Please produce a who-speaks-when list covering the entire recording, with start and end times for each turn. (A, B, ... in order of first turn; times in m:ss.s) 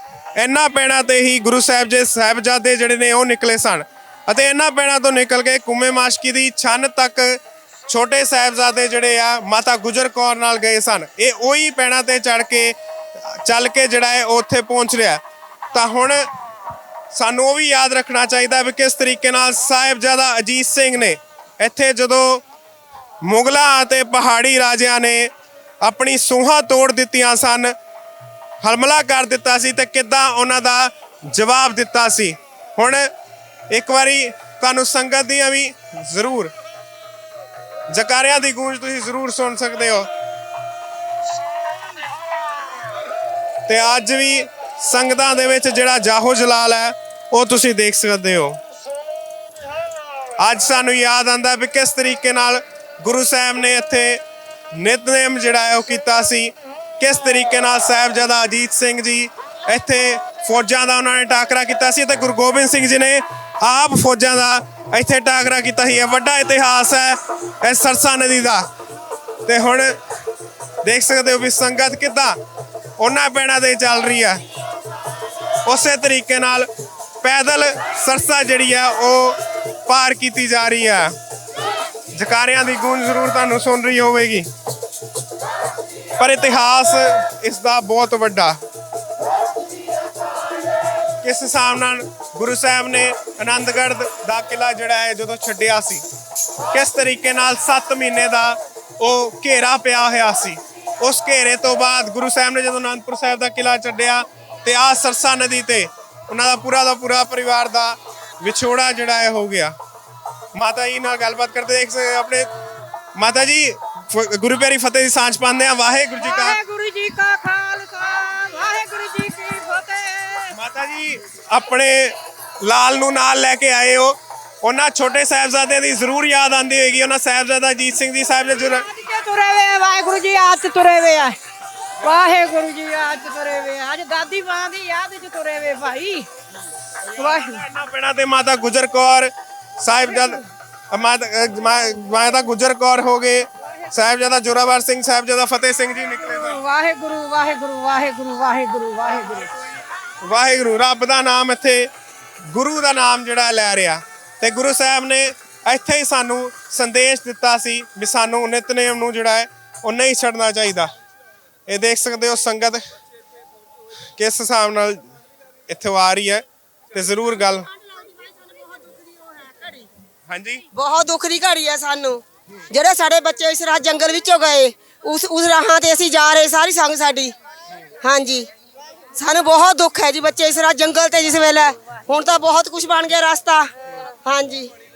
0:00.4-0:15.2 A
0:15.7-0:16.3 A
0:17.1-0:22.4 A
0:23.2-0:25.3 A
0:25.8-0:27.7 A
0:28.6-0:33.1 A
0:33.7-0:36.5 A
0:37.9-0:40.1 A
0:43.7-0:48.6 A
0:50.4-0:54.2 A
0:54.7-1:08.6 A
1:09.5-1:10.0 A
1:10.8-1:12.4 A
1:13.0-1:14.4 A
1:15.6-1:16.7 A
1:17.2-1:21.1 A
1:22.2-1:24.5 A
1:26.2-1:28.6 A
1:31.2-1:36.0 A
1:36.7-1:49.8 A
1:50.6-1:52.5 A
1:53.2-1:56.6 A
1:56.2-2:00.6 B
2:00.5-2:08.8 A
2:08.6-2:11.4 B
2:12.0-2:16.3 B
2:17.2-2:17.6 B
2:17.2-2:20.4 A
2:20.1-2:20.4 B
2:20.9-2:26.6 A
2:26.1-2:29.5 B
2:30.2-2:31.9 A
2:32.5-2:40.9 A
2:41.7-2:42.8 A
2:44.2-2:45.0 A
2:45.7-2:47.7 A
2:48.0-2:49.9 C
2:50.3-2:50.6 A
2:50.8-2:57.3 C
2:58.0-2:58.5 C
2:59.2-3:03.7 C
3:04.3-3:04.7 C